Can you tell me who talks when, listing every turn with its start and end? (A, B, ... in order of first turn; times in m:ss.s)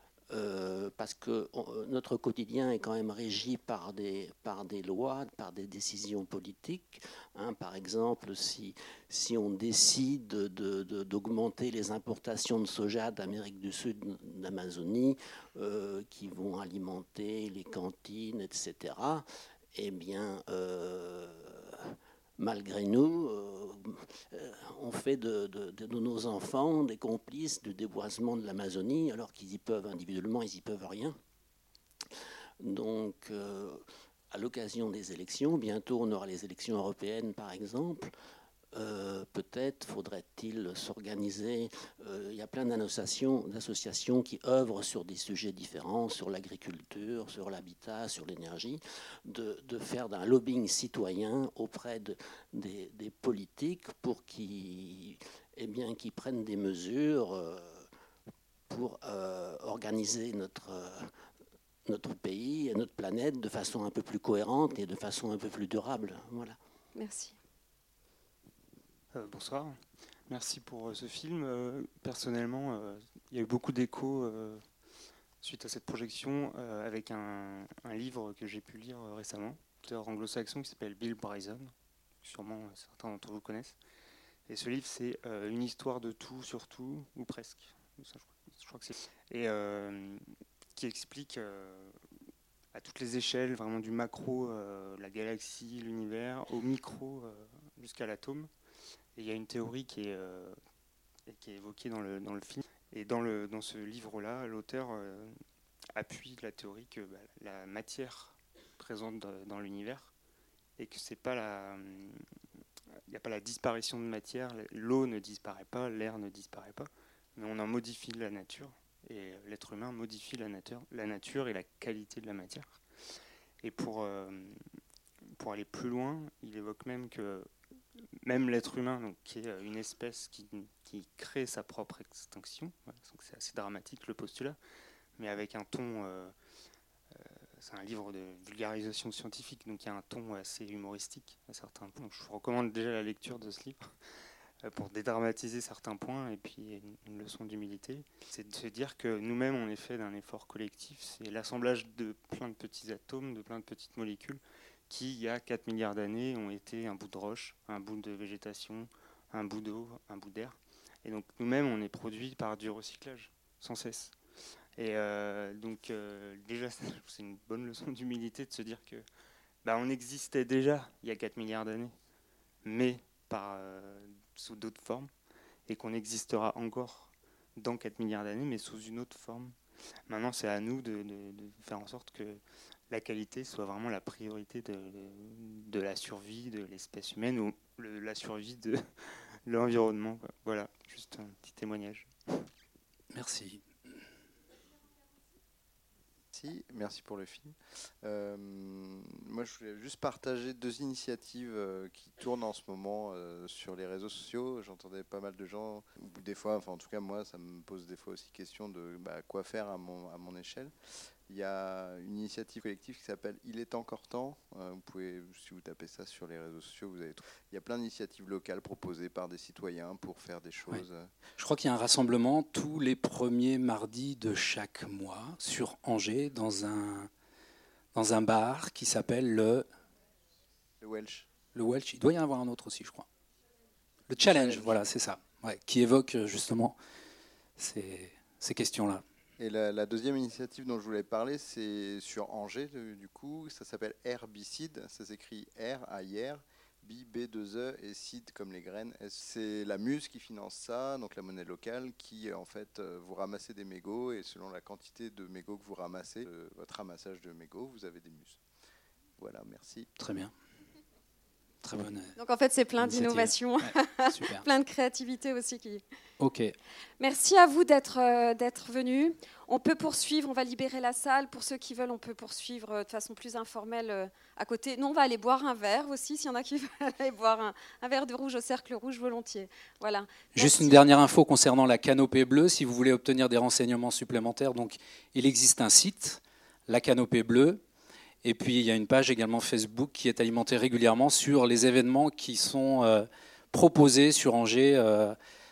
0:00.3-0:31.2 A
0:32.6-0:38.1 A
0:38.7-0:57.9 A
0:58.7-1:01.1 A
1:01.8-1:06.6 A
1:06.9-1:07.4 B
1:09.1-1:14.6 C
1:15.4-1:23.8 C
1:24.5-1:30.2 C
1:30.7-1:32.0 C
1:32.7-1:38.5 C
1:39.1-1:40.6 C
1:41.3-1:45.3 C
1:46.0-1:50.1 C
1:50.8-1:52.2 C
1:53.1-2:02.8 C
2:03.6-2:04.6 C
2:05.4-2:14.6 C
2:15.2-2:16.3 C
2:17.1-2:23.9 C
2:24.6-2:44.2 C
2:44.8-2:49.0 C
2:49.6-2:51.9 C
2:52.6-2:55.1 C
2:55.7-2:59.6 C
3:00.1-3:12.1 C
3:13.1-3:13.6 D
3:16.3-3:30.7 E
3:31.3-3:41.1 E
3:41.4-3:47.1 D
3:47.9-3:49.6 D
3:50.8-3:51.3 E
3:51.5-3:53.1 D
3:54.1-3:56.8 D
3:54.2-3:54.8 E
3:57.6-3:59.0 D
3:59.4-4:18.4 E
4:19.2-4:19.9 E
4:20.0-4:20.3 D
4:21.6-4:22.1 D
4:22.2-4:25.8 B
4:22.8-4:24.4 D
4:26.2-4:26.5 D
4:27.0-4:40.8 B
4:40.3-4:47.6 D
4:48.2-4:55.2 D